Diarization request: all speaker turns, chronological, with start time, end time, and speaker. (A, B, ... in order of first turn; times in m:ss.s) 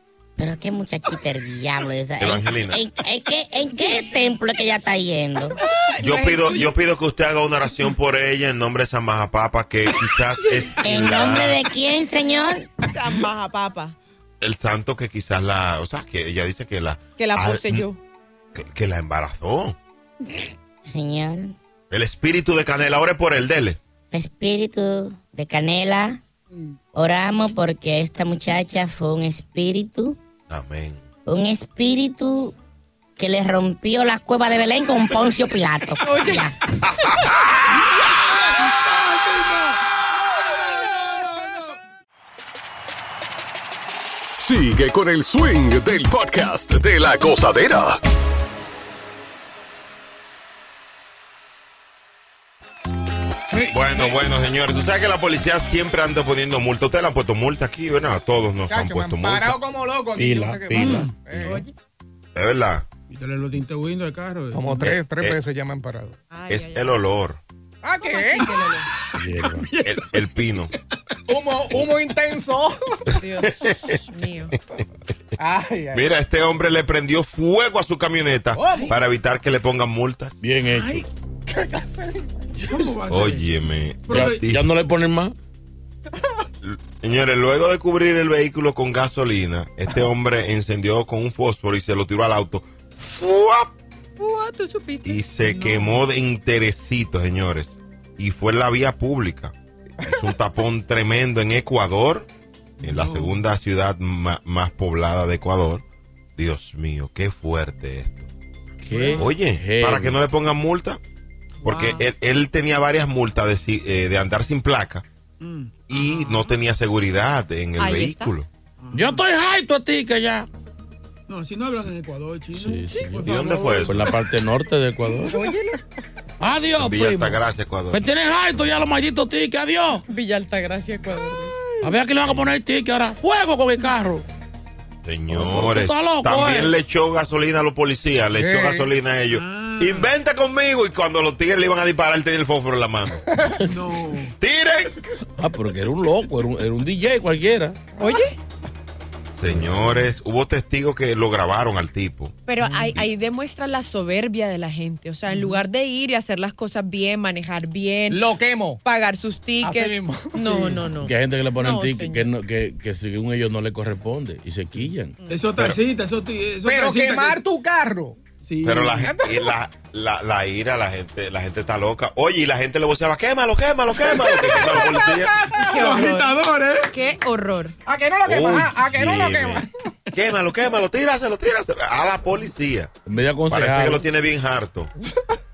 0:00.4-0:05.6 A
0:02.2-0:02.8 B
0:03.8-0:04.1 C
0:05.6-0:06.8 C
0:06.0-0:11.6 B
0:10.4-0:10.8 C
0:10.7-0:12.6 A
0:12.8-0:14.0 C
0:14.4-0:17.9 B
0:17.2-0:18.0 C
0:18.6-0:19.8 B
0:20.8-0:21.5 A
0:21.9-0:23.8 B
0:24.1-0:26.2 A
0:26.5-0:26.8 D
0:27.0-0:30.2 A
0:30.5-0:31.1 B
0:31.3-0:32.5 A
0:33.2-0:36.6 A
0:36.0-0:36.5 C
0:38.8-0:39.8 D
0:44.4-0:48.0 E
0:53.5-0:54.2 D
0:53.6-0:59.6 B
0:58.7-1:01.6 F
1:00.2-1:01.7 G
1:00.8-1:01.7 C
1:00.8-1:01.1 D
1:02.4-1:02.9 B
1:03.1-1:05.0 D
1:04.5-1:06.2 F
1:04.8-1:05.4 B
1:06.3-1:07.0 C
1:06.5-1:07.4 B
1:07.8-1:08.5 F
1:08.0-1:08.9 C
1:09.2-1:09.7 G
1:09.2-1:10.3 D
1:09.8-1:10.7 B
1:11.3-1:13.0 F
1:13.2-1:14.5 C
1:13.4-1:14.0 B
1:15.4-1:16.1 F
1:15.9-1:20.4 B
1:18.6-1:18.9 F
1:18.6-1:19.0 D
1:20.4-1:21.1 G
1:20.7-1:21.1 D
1:21.5-1:22.4 F
1:22.6-1:22.9 G
1:22.6-1:23.5 D
1:23.1-1:24.6 B
1:24.1-1:24.5 D
1:24.1-1:25.4 G
1:26.6-1:33.7 B
1:34.2-1:36.0 C
1:35.0-1:42.3 B
1:42.8-1:43.4 D
1:42.8-1:45.8 B
1:46.4-1:48.3 B
1:48.8-1:50.2 G
1:48.9-1:49.3 D
1:49.2-1:51.0 B
1:51.6-1:55.1 B
1:51.6-1:52.0 C
1:55.4-1:56.6 D
1:55.9-1:58.5 B
1:57.8-1:58.4 C
1:58.8-1:59.2 D
1:58.9-2:00.5 G
2:01.3-2:04.2 D
2:02.5-2:05.4 G
2:03.2-2:04.1 B
2:05.3-2:05.8 C
2:06.4-2:10.0 G
2:06.8-2:08.0 B
2:10.1-2:11.9 C
2:11.8-2:14.2 G
2:15.0-2:23.2 B
2:15.3-2:16.8 G
2:18.4-2:18.9 F
2:19.3-2:20.1 D
2:23.6-2:23.9 G
2:23.6-2:24.3 D
2:24.4-2:25.1 B
2:25.4-2:27.8 G
2:28.0-2:28.3 C
2:29.4-2:32.4 B
2:32.5-2:38.3 C
2:32.6-2:33.0 F
2:35.3-2:35.6 D
2:38.1-2:38.8 F
2:38.8-2:42.3 C
2:39.6-2:40.8 F
2:41.0-2:45.2 G
2:45.2-2:45.5 C
2:45.3-2:47.4 D
2:46.6-2:48.2 F
2:48.4-2:49.1 D
2:48.6-2:55.3 B
2:49.0-2:49.6 F
2:53.9-2:54.4 D
2:54.4-2:56.0 F
2:55.6-2:56.3 C
2:55.6-2:57.0 D
2:56.9-2:57.8 C
2:57.9-2:59.7 F
2:58.2-3:02.9 B
3:03.1-3:04.0 G
3:03.5-3:04.9 B